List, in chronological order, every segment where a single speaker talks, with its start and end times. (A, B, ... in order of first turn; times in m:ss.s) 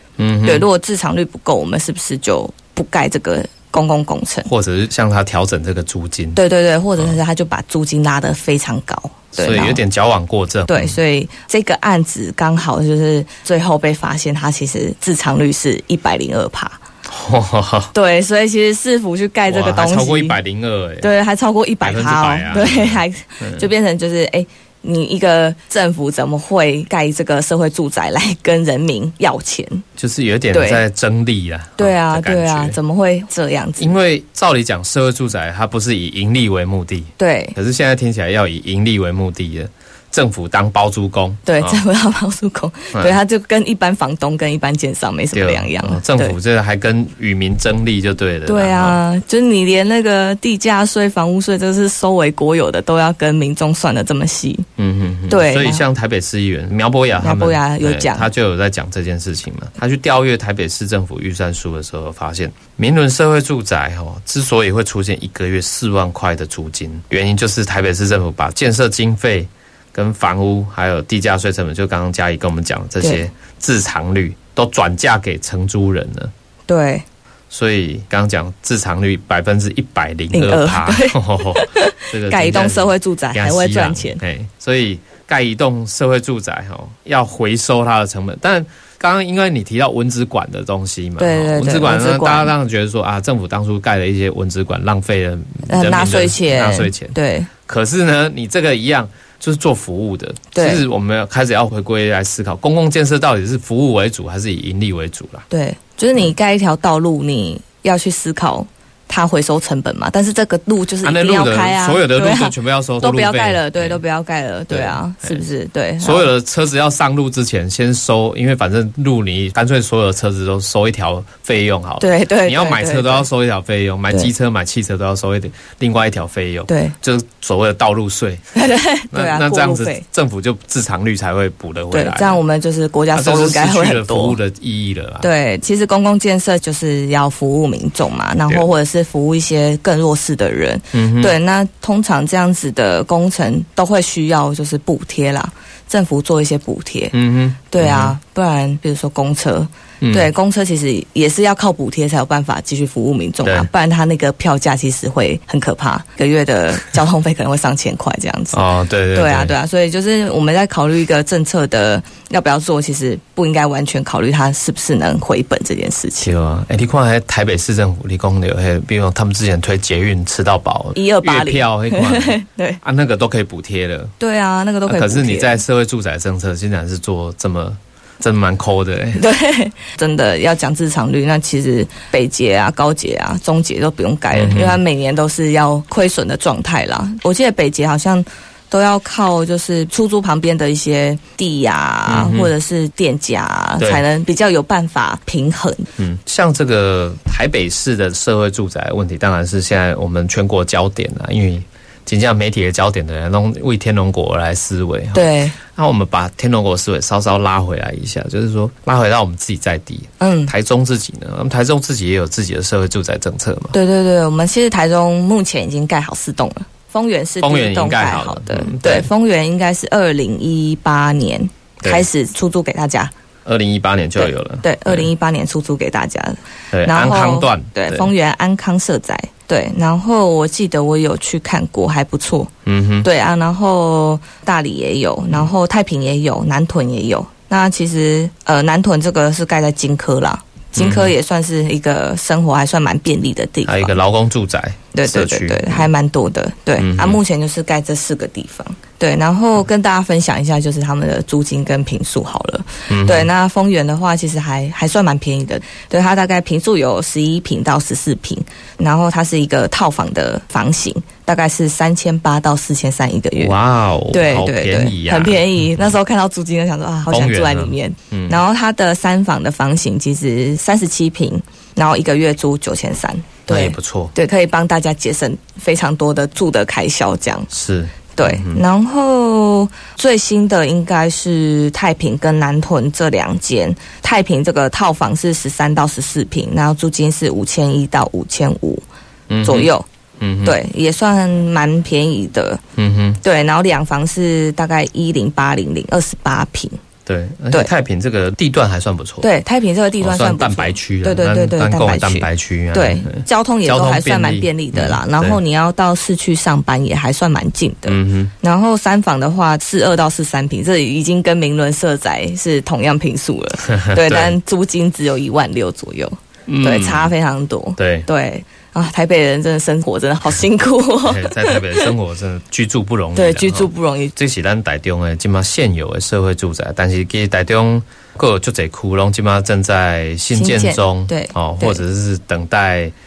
0:00.2-0:00.7 A
0:00.4-0:04.5 B
0:04.4-0:06.4 A
0:06.4-0:09.8 B
0:09.4-0:11.0 A
0:10.7-0:16.8 B
0:17.1-0:17.9 A
0:17.9-0:20.4 B
0:19.5-0:21.1 A
0:21.0-0:29.8 B
0:21.8-0:23.7 A
0:30.0-0:32.8 A
0:30.5-0:30.8 B
0:31.8-0:34.0 B
0:33.8-0:41.8 A
0:37.2-0:37.6 B
0:41.5-0:46.4 B
0:45.3-0:49.0 A
0:48.5-0:54.7 B
0:54.8-1:16.3 A
0:55.3-0:55.8 B
0:57.2-0:58.3 B
1:16.7-1:17.0 B
1:17.5-1:45.5 A
1:20.3-1:24.2 B
1:31.2-1:32.5 B
1:35.7-1:37.5 B
1:40.5-1:40.8 B
1:45.5-1:56.3 B
1:51.0-1:54.0 A
1:54.7-1:55.4 A
1:56.0-2:08.6 A
2:02.0-2:03.3 B
2:06.7-2:07.0 B
2:08.6-2:10.0 B
2:09.1-2:12.4 A
2:11.9-2:14.4 B
2:13.1-2:15.3 A
2:15.2-2:27.2 B
2:20.9-2:21.4 A
2:27.1-2:28.2 A
2:27.7-2:38.6 B
2:30.0-2:30.3 A
2:33.4-2:33.7 A
2:38.5-2:39.6 A
2:39.1-2:46.3 B
2:46.2-2:54.1 A
2:51.0-2:52.8 B
2:54.2-2:55.6 B
2:54.9-2:59.2 A
2:59.2-3:15.9 B
3:04.3-3:04.8 A
3:12.1-3:12.5 A
3:13.8-3:14.0 A
3:16.0-3:33.8 A
3:25.1-3:25.6 B
3:30.2-3:30.5 B
3:33.7-3:43.1 B
3:37.4-3:39.1 A
3:41.8-3:42.1 A
3:43.4-3:45.1 A
3:44.2-3:52.5 B
3:46.7-3:48.1 A
3:52.7-3:53.1 A
3:53.0-4:04.0 B
4:00.8-4:01.1 A
4:03.7-4:05.9 A
4:04.9-4:23.6 B
4:06.8-4:07.2 A
4:12.9-4:13.3 A
4:23.4-4:25.8 A
4:24.1-4:37.5 B
4:27.1-4:28.4 A
4:33.5-4:34.1 A
4:37.5-4:38.6 A
4:38.2-4:48.8 B
4:49.3-4:50.6 A
4:49.4-4:49.9 B
4:50.4-4:52.6 B
4:52.8-4:53.2 A
4:53.2-4:56.8 B
4:57.1-4:59.3 A
4:59.2-5:21.9 B
5:00.0-5:05.4 A
5:07.9-5:08.3 A
5:13.7-5:14.4 A
5:16.5-5:17.1 A
5:17.8-5:18.1 A
5:21.0-5:32.9 A
5:23.2-5:24.1 B
5:30.3-5:31.8 B